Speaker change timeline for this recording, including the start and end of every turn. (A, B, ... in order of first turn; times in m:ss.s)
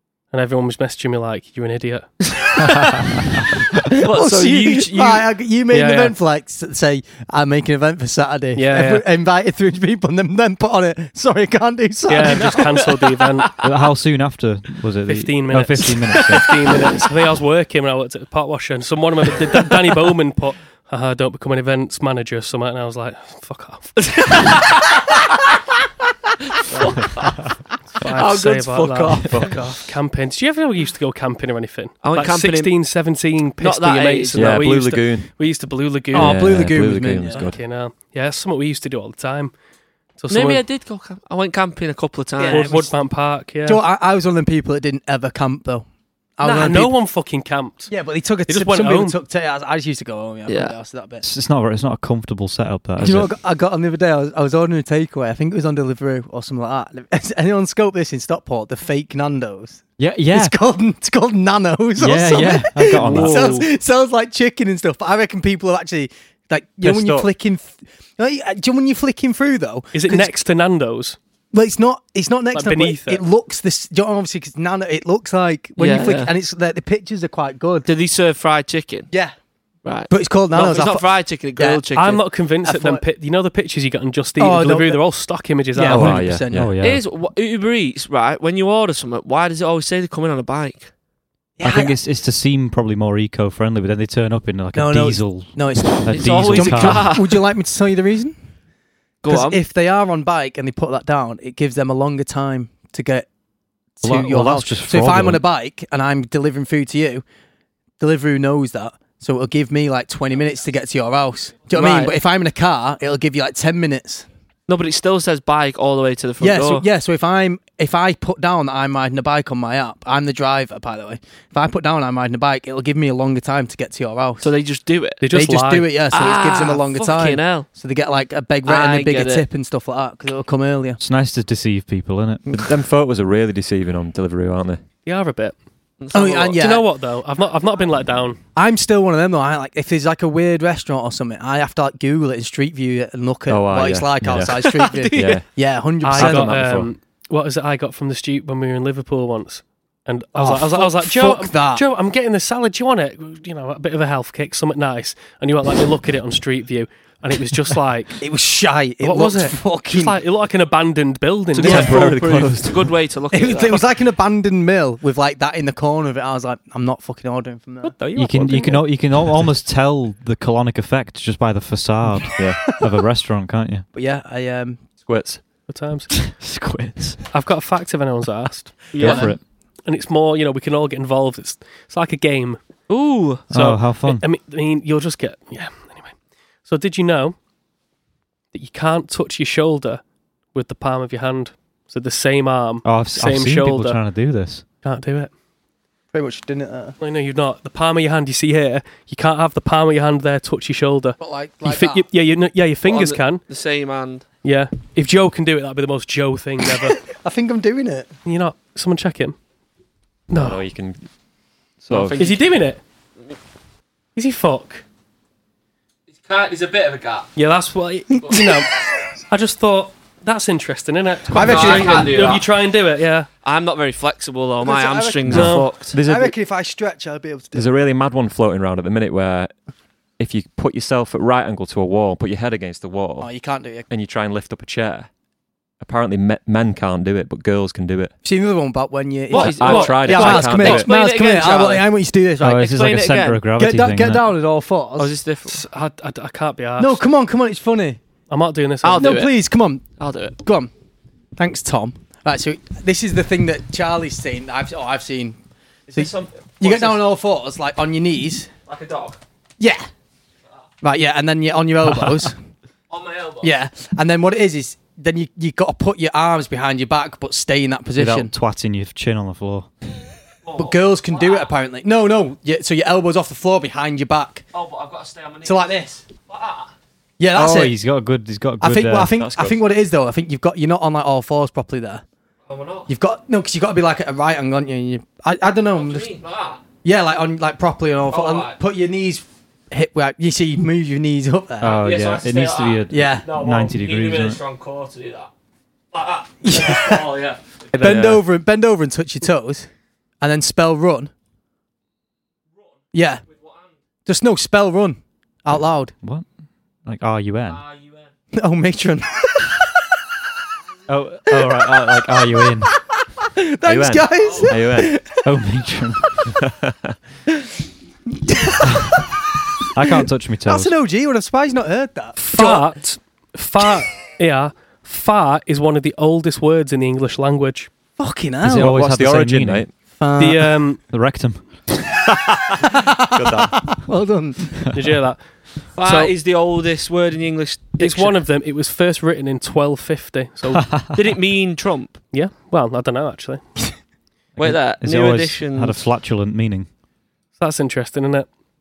0:00.3-0:02.6 A
0:04.0-0:05.3 B
0:04.0-0:12.9 C
0:05.7-0:06.2 A
0:08.6-0:09.0 A
0:12.1-0:13.6 A
0:13.6-0:16.8 D
0:15.1-0:24.2 A
0:24.2-0:24.5 B
0:26.7-0:27.0 A
0:28.0-0:39.5 A
0:28.0-0:29.5 B
0:29.3-0:29.6 E
0:32.0-0:32.7 B
0:33.6-0:34.5 B
0:34.4-0:35.3 E
0:36.1-0:37.5 C
0:36.1-0:37.6 E
0:40.2-0:40.6 A
0:40.3-0:42.8 B
0:42.4-0:42.9 C
0:42.5-0:43.8 A
0:43.6-0:45.9 C
0:46.4-0:47.0 C
0:46.4-0:47.9 A
0:47.9-0:51.2 C
0:48.5-0:49.2 A
0:50.5-0:50.7 B
0:51.2-0:53.3 D
0:53.0-1:10.4 C
1:00.0-1:00.6 D
1:02.0-1:03.6 D
1:03.0-1:03.6 B
1:06.8-1:07.3 E
1:09.9-1:11.2 A
1:11.5-1:17.9 C
1:12.5-1:13.2 A
1:15.8-1:16.3 B
1:17.8-1:19.1 B
1:19.8-1:22.2 B
1:20.1-1:21.8 C
1:21.9-1:26.2 A
1:22.6-1:23.0 C
1:24.4-1:25.0 C
1:25.7-1:26.7 C
1:25.8-1:26.7 E
1:26.4-1:27.0 D
1:26.8-1:30.9 B
1:31.6-1:32.0 C
1:31.6-1:37.1 D
1:34.7-1:38.4 C
1:36.1-1:37.3 B
1:39.2-1:39.6 B
1:39.3-1:43.3 C
1:44.0-1:47.2 C
1:44.0-1:45.4 D
1:48.0-1:54.3 C
1:51.7-1:52.2 B
1:54.7-1:56.9 B
1:56.4-2:04.5 C
2:04.4-2:05.2 B
2:05.2-2:06.0 A
2:05.3-2:11.0 C
2:06.1-2:07.7 B
2:08.6-2:09.4 B
2:11.0-2:12.5 D
2:12.5-2:14.8 E
2:15.1-2:15.6 A
2:16.0-2:16.6 B
2:16.1-2:16.9 C
2:16.6-2:18.4 A
2:18.6-2:26.6 C
2:23.5-2:25.5 E
2:24.9-2:25.4 B
2:26.0-2:38.2 A
2:26.1-2:26.9 E
2:30.4-2:31.8 C
2:38.2-2:40.2 C
2:39.0-2:42.1 A
2:41.6-2:42.9 E
2:41.6-2:43.9 B
2:41.6-2:41.9 C
2:43.3-2:48.0 C
2:47.8-2:48.8 A
2:48.2-2:53.8 D
2:52.4-2:52.8 E
2:53.9-2:54.8 C
2:55.1-2:55.4 E
2:55.7-2:56.3 A
2:56.2-2:57.2 D
2:57.3-2:59.3 A
2:58.9-2:59.3 B
2:59.0-2:59.4 D
2:59.0-2:59.4 C
2:59.8-3:02.6 A
3:02.9-3:03.5 B
3:03.5-3:07.4 A
3:03.5-3:04.2 D
3:08.5-3:14.0 A
3:12.8-3:14.7 D
3:14.8-3:15.3 A
3:16.1-3:17.0 C
3:17.0-3:23.4 A
3:21.2-3:22.1 C
3:22.8-3:24.3 B
3:24.4-3:27.0 A
3:27.1-3:28.1 C
3:28.2-3:29.4 A
3:30.3-3:30.6 A
3:30.3-3:31.0 E
3:31.8-3:32.2 E
3:31.9-3:32.5 B
3:32.2-3:32.8 A
3:34.2-3:34.8 A
3:36.2-3:37.3 B
3:37.4-3:38.7 A
3:38.2-3:38.6 C
3:39.3-3:43.3 A
3:41.3-3:42.2 C
3:41.3-3:42.5 B
3:43.4-3:46.0 B
3:44.6-3:47.7 C
3:45.3-3:45.8 A
3:45.3-3:46.4 E
3:47.6-3:49.5 E
3:50.2-3:53.3 E
3:53.2-3:53.9 C
3:53.9-3:55.1 E
3:55.8-3:58.1 E
3:58.2-4:02.8 C
3:59.3-4:01.9 B
3:59.4-4:00.9 E
3:59.5-4:00.5 A
4:02.4-4:04.3 D
4:02.6-4:03.4 B
4:03.6-4:05.1 C
4:05.0-4:05.6 B
4:05.5-4:07.0 A
4:06.8-4:08.0 C
4:08.3-4:09.2 A
4:08.8-4:09.3 B
4:09.0-4:09.8 C
4:10.0-4:10.4 B
4:10.4-4:10.7 C
4:11.4-4:15.4 C
4:15.9-4:17.0 B
4:15.9-4:18.5 C
4:18.7-4:19.2 B
4:19.6-4:19.9 C
4:20.8-4:22.4 C
4:22.9-4:23.5 B
4:23.4-4:28.3 C
4:28.0-4:29.7 D
4:30.4-4:31.5 B
4:30.6-4:34.5 C
4:34.5-4:36.7 B
4:35.4-4:36.0 C
4:37.2-4:37.8 C
4:37.3-4:39.1 D
4:38.6-4:42.0 C
4:39.2-4:39.6 E
4:42.5-4:42.9 B
4:42.9-4:46.1 C
4:45.7-4:46.6 B
4:46.8-4:51.8 C
4:48.1-4:48.6 B
4:51.6-4:54.4 D
4:51.6-4:55.3 B
4:52.9-4:53.2 C
4:55.9-4:57.4 B
4:56.4-4:57.2 C
4:57.7-4:59.7 C
4:57.8-4:58.2 E
5:00.2-5:01.1 C
5:02.9-5:03.2 C
5:03.3-5:03.7 B
5:04.1-5:05.9 C
5:06.8-5:07.6 D
5:07.5-5:08.1 B
5:08.3-5:09.9 C
5:10.9-5:12.8 D
5:13.4-5:15.2 C
5:13.7-5:14.9 E
5:15.2-5:16.3 D
5:16.4-5:17.0 E
5:18.2-5:22.7 C
5:19.7-5:20.7 D
5:22.2-5:27.7 A
5:28.0-5:28.8 C
5:28.4-5:29.7 D
5:28.5-5:29.7 E
5:30.0-5:30.6 C
5:30.2-5:30.8 A
5:30.9-5:31.6 D
5:32.8-5:34.7 C
5:33.1-5:33.6 E
5:34.7-5:36.1 A
5:35.8-5:38.2 B
5:37.8-5:40.8 A
5:40.6-5:41.0 D
5:40.9-5:42.0 B
5:42.1-5:43.4 A
5:44.4-5:46.7 D
5:44.4-5:45.8 B
5:47.4-5:48.3 A